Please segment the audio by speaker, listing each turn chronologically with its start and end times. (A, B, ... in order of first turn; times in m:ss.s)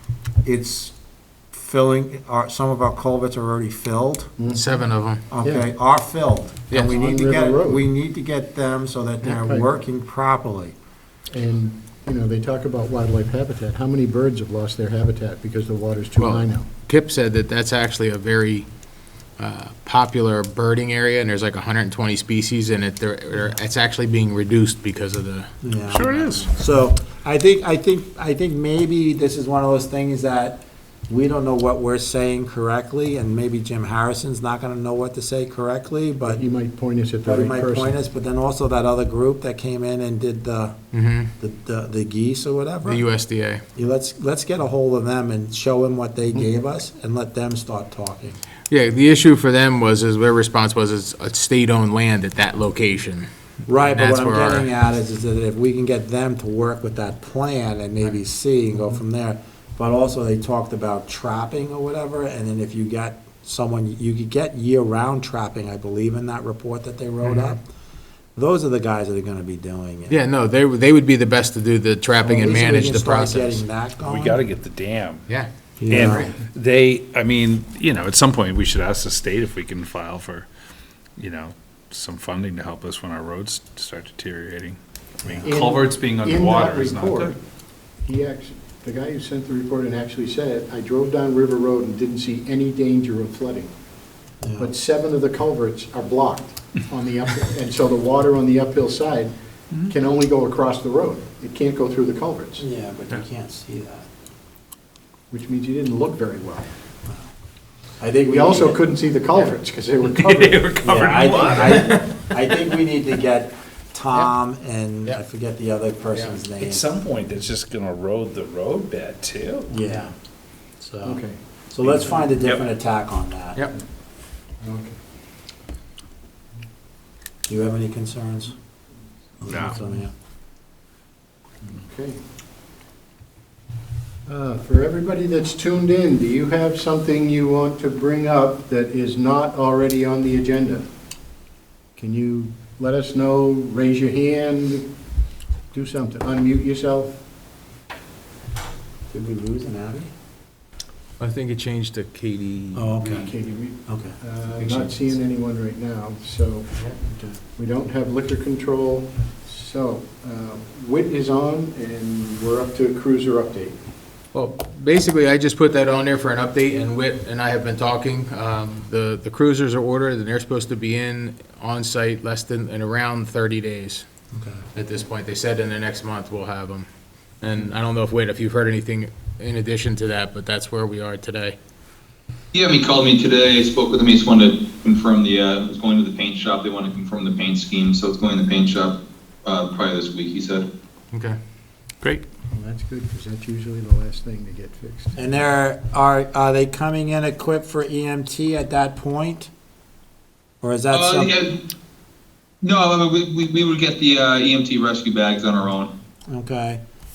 0:00.4-0:01.0 A
0:01.5-0:04.3 A
0:04.4-0:04.7 B
0:04.5-0:05.2 C
0:05.3-0:10.8 A
0:05.4-0:05.7 B
0:06.8-0:07.8 B
0:09.2-0:09.7 B
0:11.3-0:16.7 B
0:16.2-0:18.7 C
0:19.4-0:25.5 C
0:25.6-0:36.4 A
0:25.9-0:26.5 D
0:36.3-0:37.9 B
0:37.2-0:40.8 A
0:40.9-0:41.3 C
0:41.4-0:43.1 A
0:42.8-0:43.6 C
0:43.8-0:48.4 A
0:48.7-0:53.3 C
0:53.7-1:07.6 A
0:53.8-0:54.7 C
1:08.4-1:10.2 A
1:10.1-1:13.6 C
1:12.2-1:14.4 A
1:14.0-1:15.3 D
1:15.8-1:16.3 A
1:15.9-1:20.5 D
1:21.2-1:27.4 D
1:25.2-1:25.5 A
1:25.4-1:27.4 B
1:28.0-1:33.7 B
1:34.4-1:34.7 A
1:34.6-1:39.3 B
1:39.8-1:42.6 B
1:42.6-1:44.1 A
1:45.3-1:46.7 B
1:48.0-1:48.8 A
1:48.3-1:50.7 B
1:50.1-1:52.0 D
1:50.8-1:56.8 A
1:56.6-1:59.7 D
1:59.7-2:00.1 A
2:00.8-2:01.2 A
2:01.0-2:01.4 B
2:01.7-2:03.6 A
2:04.6-2:05.0 B
2:07.5-2:08.5 A
2:09.4-2:10.1 A
2:09.4-2:09.8 D
2:11.6-2:12.2 B
2:14.3-2:20.8 B
2:22.0-2:24.9 B
2:25.7-2:27.1 B
2:29.1-2:30.1 A
2:31.2-2:33.2 C
2:32.7-2:33.3 A
2:33.1-2:43.8 B
2:33.9-2:34.2 A
2:44.3-2:54.1 C
2:54.3-2:54.6 A
2:54.7-2:56.9 C
2:57.4-3:01.6 C
3:02.5-3:10.7 E
3:11.1-3:11.4 C
3:12.5-3:15.2 B
3:15.2-3:19.5 A
3:20.6-3:21.3 A
3:20.9-3:21.6 E
3:22.6-3:25.9 E
3:26.3-3:26.8 A